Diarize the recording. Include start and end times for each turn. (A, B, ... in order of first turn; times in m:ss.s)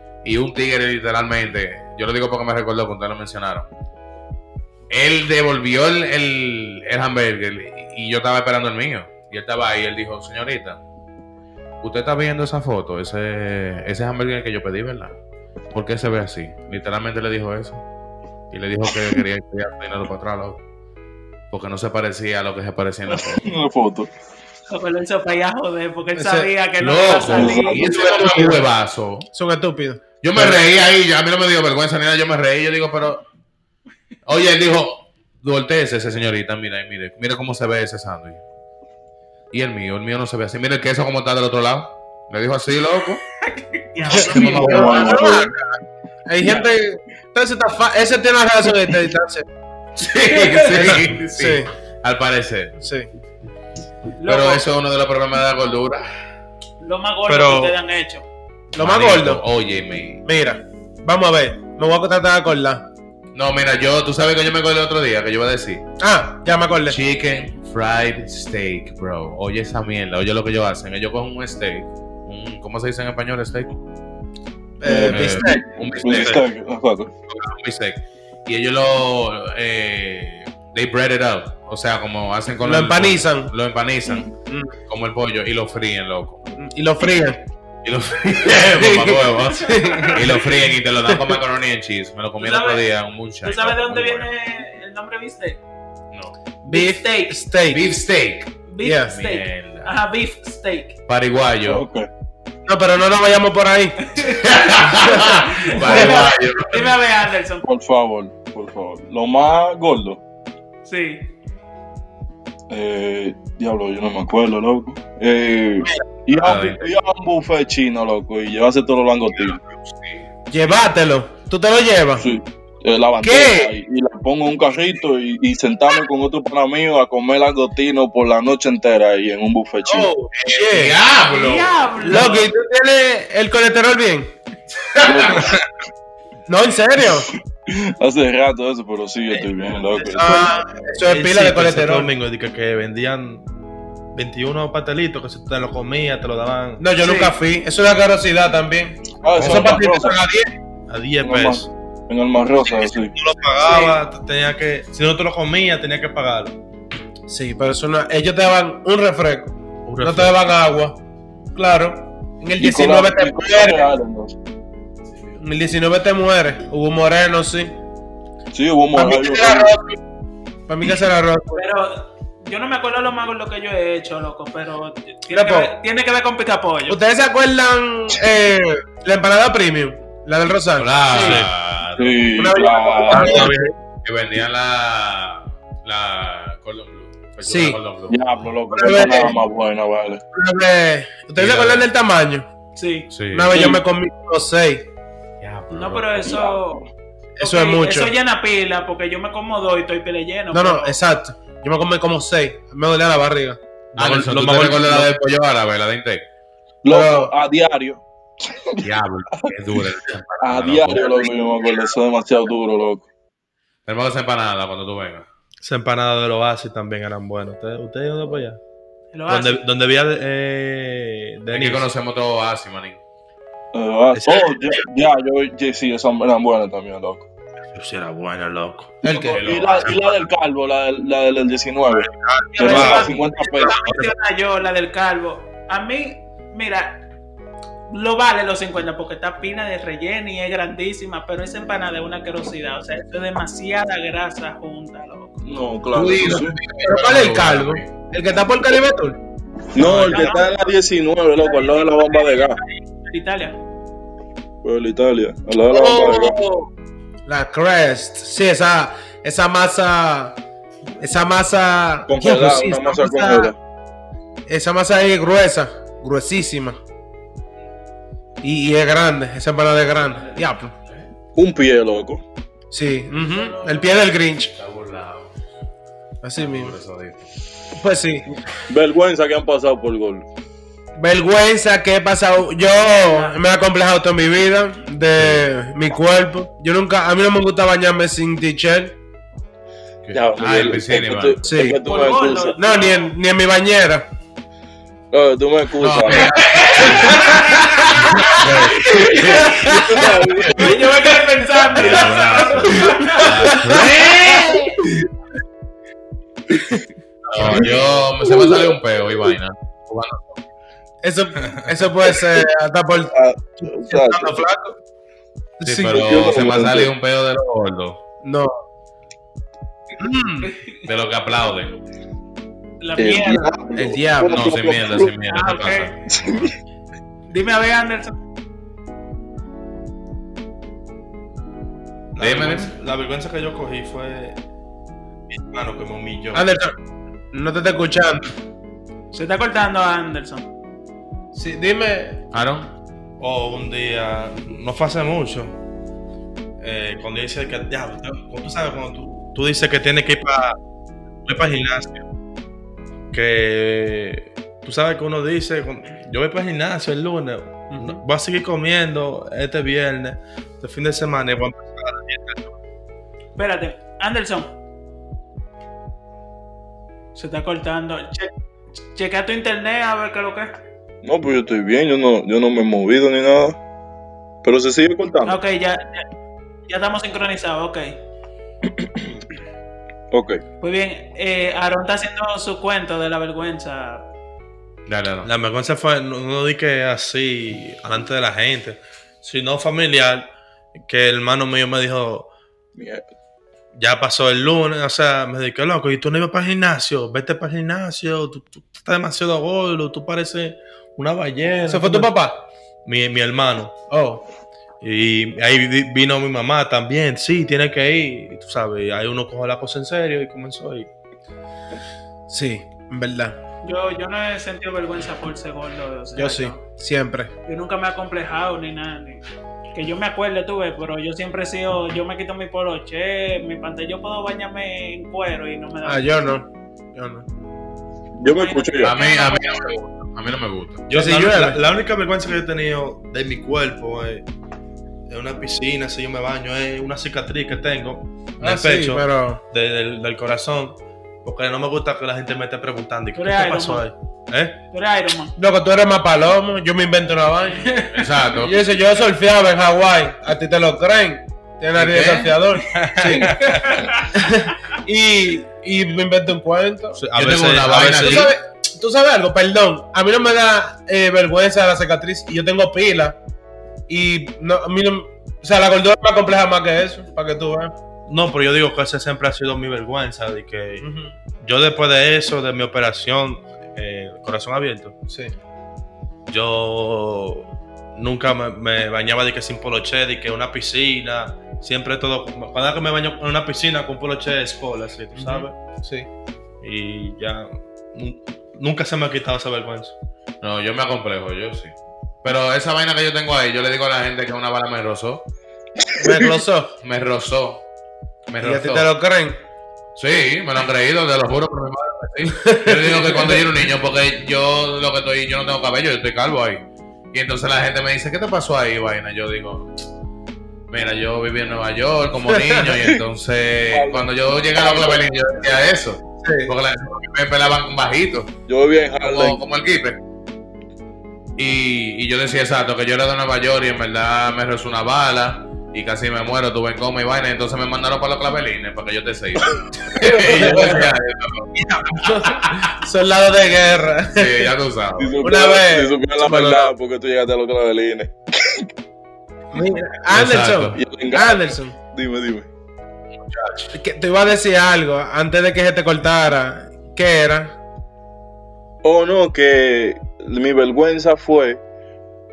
0:00.2-0:03.7 A
0:04.9-0:10.8 A
0:11.8-0:15.2 A
0:15.7-0:17.8 A
0:18.5-0:20.6 A
0:21.5-0:23.5 A
0:23.1-0:24.1 B
0:24.7-0:28.4 C
0:26.1-0:26.5 D
0:26.8-0:29.3 A
0:27.3-0:28.0 B
0:27.3-0:28.7 D
0:29.3-0:30.6 D
0:30.2-0:33.2 A
0:34.2-0:38.4 A
0:39.5-0:43.2 A
0:43.4-0:45.2 C
0:44.1-0:45.5 A
0:44.2-0:45.5 B
0:44.6-0:45.5 D
0:46.2-0:49.4 D
0:50.0-0:52.8 A
0:50.3-0:50.8 C
0:50.7-0:51.7 D
0:52.8-0:53.1 D
0:54.2-0:54.6 C
0:54.3-0:56.0 A
0:56.8-0:58.2 C
0:57.3-0:57.8 E
0:58.7-0:59.4 D
0:58.8-1:00.2 A
1:00.2-1:02.8 D
1:03.3-1:05.8 A
1:06.0-1:07.0 D
1:06.9-1:13.7 A
1:14.8-1:15.6 D
1:14.8-1:17.1 B
1:15.0-1:16.4 A
1:16.2-1:16.4 E
1:17.3-1:24.3 A
1:22.6-1:23.5 D
1:24.5-1:24.8 D
1:24.9-1:26.4 A
1:26.6-1:27.4 D
1:27.8-1:34.3 A
1:28.5-1:30.5 D
1:29.8-1:30.2 C
1:31.1-1:31.4 D
1:32.4-1:32.8 C
1:33.4-1:35.6 C
1:36.6-1:37.8 D
1:36.7-1:37.4 C
1:37.7-1:38.6 A
1:38.7-1:40.9 C
1:38.8-1:39.1 D
1:39.1-1:39.9 A
1:41.1-1:41.8 A
1:41.6-1:42.1 B
1:42.6-1:44.0 D
1:44.0-1:47.7 C
1:44.3-1:47.0 A
1:45.0-1:46.2 D
1:47.6-1:50.2 B
1:50.8-1:51.3 C
1:52.7-1:59.6 B
1:56.3-1:56.9 A
1:59.6-2:00.2 A
2:00.5-2:02.3 D
2:02.2-2:10.1 B
2:03.2-2:03.7 D
2:09.8-2:11.0 D
2:10.3-2:11.9 A
2:11.2-2:12.5 C
2:12.0-2:14.3 D
2:14.8-2:15.4 A
2:15.0-2:15.6 B
2:16.5-2:17.3 D
2:17.7-2:20.5 B
2:20.2-2:22.1 D
2:21.0-2:23.4 E
2:24.1-2:26.8 E
2:26.8-2:30.5 D
2:27.0-2:27.3 C
2:29.2-2:30.2 B
2:29.4-2:29.8 A
2:30.9-2:31.7 E
2:31.2-2:33.1 B
2:32.8-2:36.6 E
2:33.6-2:34.0 C
2:37.3-2:41.0 D
2:39.8-2:40.4 E
2:41.5-2:43.9 D
2:42.6-2:44.4 B
2:45.4-2:47.7 D
2:48.5-2:49.7 B
2:48.9-2:50.0 D
2:50.7-2:51.6 D
2:51.5-2:57.0 C
2:55.3-2:55.7 D
2:56.9-3:01.4 D
3:00.8-3:02.6 A
3:01.1-3:01.4 C
3:01.1-3:01.5 E
3:02.0-3:03.6 B
3:02.4-3:03.7 D
3:03.1-3:08.2 A
3:07.4-3:07.8 D
3:08.1-3:10.2 B
3:08.7-3:09.4 D
3:10.3-3:12.5 D
3:11.4-3:11.9 A
3:12.8-3:13.1 C
3:13.1-3:13.7 A
3:13.3-3:14.9 D
3:13.5-3:13.8 B
3:15.4-3:16.4 A
3:15.7-3:16.9 C
3:16.2-3:16.5 B
3:17.4-3:18.1 D
3:17.4-3:21.0 C
3:20.5-3:23.6 D
3:24.0-3:26.2 A
3:24.0-3:25.0 E
3:26.8-3:28.8 B
3:26.9-3:27.3 D
3:28.8-3:31.3 A
3:30.4-3:33.1 B
3:33.8-3:35.2 A
3:35.6-3:38.6 E
3:39.1-3:39.6 C
3:39.3-3:41.8 E
3:41.5-3:43.0 A
3:43.7-3:47.2 B
3:44.1-3:44.5 E
3:47.7-3:49.0 E
3:49.0-3:49.4 D
3:49.0-3:53.8 B
3:49.1-3:50.2 A
3:52.0-3:54.1 E
3:52.5-3:57.0 C
3:57.9-4:05.4 C
4:05.4-4:06.6 B
4:05.9-4:07.9 A
4:06.0-4:09.2 D
4:09.7-4:12.6 B
4:09.8-4:10.7 C
4:11.4-4:13.6 C
4:14.6-4:16.4 B
4:15.7-4:16.7 D
4:17.2-4:20.4 D
4:21.0-4:23.5 D
4:22.1-4:23.6 B
4:24.5-4:26.8 D
4:28.4-4:30.7 D
4:31.3-4:32.2 B
4:32.7-4:34.5 D
4:34.5-4:35.3 A
4:36.2-4:36.7 D
4:36.4-4:37.3 A
4:37.8-4:38.4 D
4:38.7-4:40.2 B
4:41.0-4:48.9 D
4:42.6-4:43.4 C
4:45.2-4:45.4 A
4:50.0-4:51.5 A
4:50.1-4:52.6 B
4:51.4-4:51.8 D
4:51.8-4:53.1 C
4:52.5-4:54.0 D
4:55.1-4:56.4 B
4:55.8-5:00.5 A
4:56.4-4:58.3 C
4:57.1-4:57.4 D
4:58.6-5:00.1 D
4:58.9-4:59.8 C
4:59.4-5:00.8 B
5:00.5-5:04.7 C
5:01.7-5:04.7 A
5:03.2-5:04.7 D
5:07.3-5:10.4 A
5:07.4-5:08.8 B
5:11.0-5:13.1 D
5:11.4-5:11.7 E
5:13.1-5:14.4 B
5:13.7-5:14.8 D
5:15.6-5:16.0 D
5:15.6-5:18.0 A
5:15.9-5:16.9 B
5:18.2-5:18.5 D
5:20.0-5:20.5 D
5:20.4-5:20.7 C
5:20.8-5:21.8 A
5:22.8-5:23.6 C
5:23.0-5:25.1 B
5:23.8-5:24.5 D
5:24.3-5:26.5 A
5:25.3-5:25.9 C
5:26.1-5:26.5 B
5:27.3-5:28.1 C
5:32.1-5:34.4 E
5:32.2-5:32.7 A
5:35.3-5:36.4 E
5:36.3-5:36.7 D
5:37.3-5:38.3 D
5:39.1-5:40.4 C
5:41.3-5:42.2 D
5:42.3-5:42.7 A
5:43.2-5:45.6 E
5:46.6-5:50.6 E
5:51.2-5:52.0 E
5:53.1-6:02.5 E
5:57.7-5:58.0 D
6:03.4-6:04.5 C
6:07.1-6:08.3 C
6:08.9-6:10.5 C
6:11.0-6:13.6 B
6:14.4-6:15.4 B
6:15.2-6:16.0 C
6:16.7-6:18.0 C
6:20.1-6:20.4 B
6:20.6-6:24.0 C
6:24.9-6:25.3 A
6:25.2-6:30.2 E
6:30.8-6:32.3 E
6:32.8-6:33.0 B
6:33.8-6:42.1 E
6:41.7-6:42.4 D
6:42.8-6:43.7 E
6:43.9-6:44.2 D
6:44.8-6:50.9 E
6:52.3-6:53.4 D
6:53.6-6:56.6 C
6:56.2-6:57.3 D
6:57.4-7:06.2 C
7:05.8-7:07.2 D
7:08.2-7:08.9 B
7:08.2-7:09.4 C
7:08.8-7:10.8 A
7:10.9-7:14.2 E
7:10.9-7:11.6 D
7:15.1-7:24.6 E
7:18.4-7:19.4 D
7:23.2-7:23.9 C
7:24.7-7:25.3 C
7:25.4-7:27.7 D
7:27.6-7:28.0 C
7:27.8-7:28.6 A
7:28.4-7:33.4 D
7:31.8-7:32.3 A
7:32.7-7:33.8 E
7:33.4-7:34.1 C
7:34.1-7:37.0 D
7:37.0-7:38.3 E
7:37.1-7:38.3 A
7:38.0-7:43.2 D
7:43.9-7:47.7 D
7:48.1-7:54.9 E
7:50.8-7:51.1 D
7:55.1-7:55.3 D
7:56.3-8:05.5 E
8:05.1-8:06.1 D
8:06.6-8:09.9 E
8:10.4-8:15.2 A
8:16.0-8:16.7 D
8:16.8-8:17.6 A
8:18.3-8:18.9 A
8:18.4-8:19.4 D
8:20.0-8:29.7 A
8:22.4-8:23.5 D
8:30.7-8:38.3 A
8:32.3-8:32.8 D
8:33.7-8:35.0 B
8:36.2-8:36.5 D
8:38.5-8:39.4 B
8:39.0-8:40.0 A
8:41.4-8:52.7 A
8:49.9-8:50.9 B
8:50.3-8:50.9 D
8:51.6-8:54.5 D
8:54.1-8:55.2 A
8:55.0-8:58.7 B
8:55.2-8:56.7 D
8:59.5-9:01.8 D
9:00.1-9:00.8 A
9:00.7-9:02.5 B
9:03.2-9:03.7 A
9:03.7-9:07.5 D
9:08.8-9:11.6 B